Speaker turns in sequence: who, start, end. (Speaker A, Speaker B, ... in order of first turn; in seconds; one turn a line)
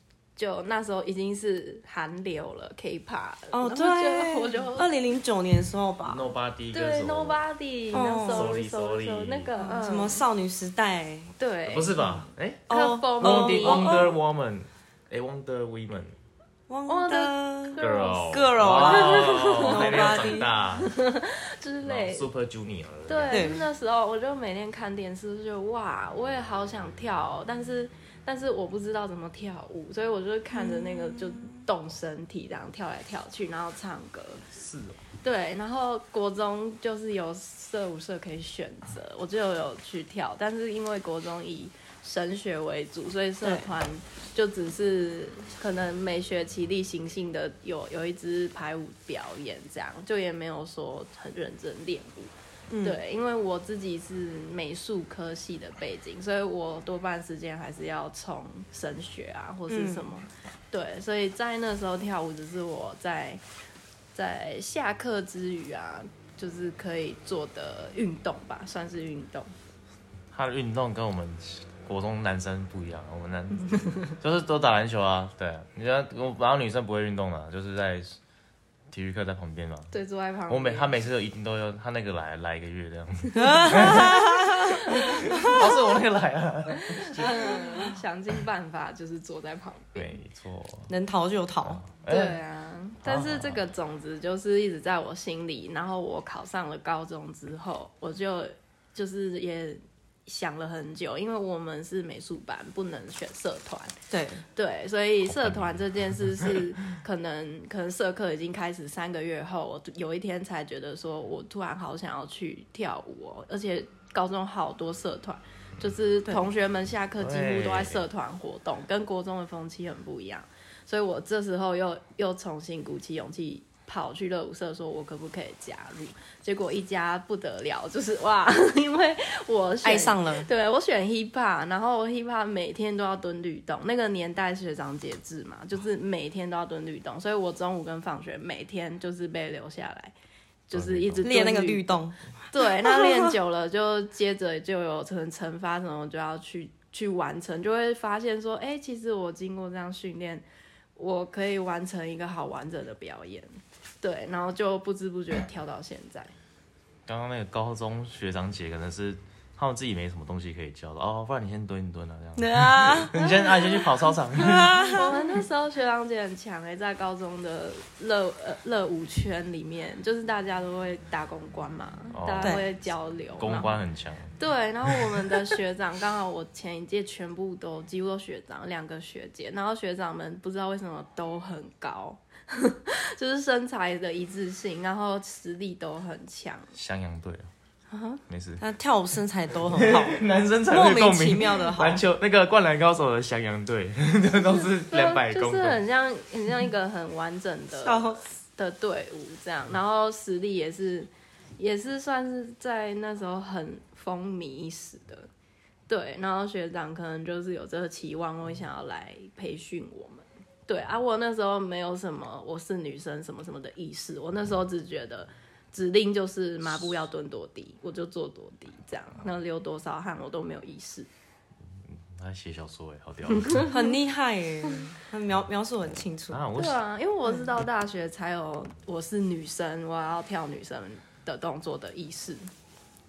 Speaker A: 0.3-4.9
Speaker B: 3.5-6.2
Speaker C: 6.0-7.4
Speaker A: 6.7-10.2
Speaker B: 7.9-8.5
Speaker C: 8.2-9.5
Speaker B: 9.6-11.3
Speaker A: 11.4-14.1
Speaker C: 11.7-16.1
Speaker B: 12.7-14.1
Speaker B: 16.7-20.5
Speaker A: 16.9-22.3
Speaker C: 17.8-21.0
Speaker C: 21.8-23.6
Speaker A: 23.1-34.4
Speaker B: 23.3-23.6
Speaker B: 30.5-31.6
Speaker C: 34.5-35.0
Speaker A: 35.2-52.3
Speaker B: 43.4-43.7
Speaker B: 52.7-53.0
Speaker A: 52.8-63.4
Speaker B: 59.7-60.1
Speaker A: 64.1-69.5
Speaker C: 70.3-78.2
Speaker C: 78.9-79.9
Speaker A: 79.9-80.9
Speaker C: 80.5-87.9
Speaker B: 83.3-84.8
Speaker A: 83.6-85.8
Speaker B: 85.3-85.6
Speaker A: 86.9-90.1
Speaker C: 90.0-90.9
Speaker B: 90.9-91.8
Speaker C: 91.6-92.3
Speaker A: 92.1-104.0
Speaker C: 93.0-93.6
Speaker B: 104.1-104.4
Speaker A: 104.5-140.1
Speaker C: 105.2-106.5
Speaker C: 117.2-118.0
Speaker B: 129.8-130.5
Speaker A: 140.7-150.4
Speaker C: 140.7-141.2
Speaker B: 141.2-143.3
Speaker A: 150.9-153.5
Speaker A: 154.0-156.3
Speaker C: 157.1-165.0
Speaker B: 162.4-163.2
Speaker A: 163.1-163.8
Speaker B: 164.4-165.2
Speaker A: 164.9-173.7
Speaker C: 172.1-172.7
Speaker B: 172.4-172.7
Speaker C: 173.4-174.3
Speaker A: 174.4-186.7
Speaker C: 186.7-187.5
Speaker B: 187.9-192.0
Speaker C: 188.3-188.6
Speaker C: 189.7-195.8
Speaker A: 194.9-205.3
Speaker B: 197.8-198.2
Speaker A: 205.9-221.1
Speaker C: 221.9-223.7
Speaker A: 223.5-223.8
Speaker B: 223.7-226.4
Speaker C: 226.3-226.8
Speaker A: 226.6-232.5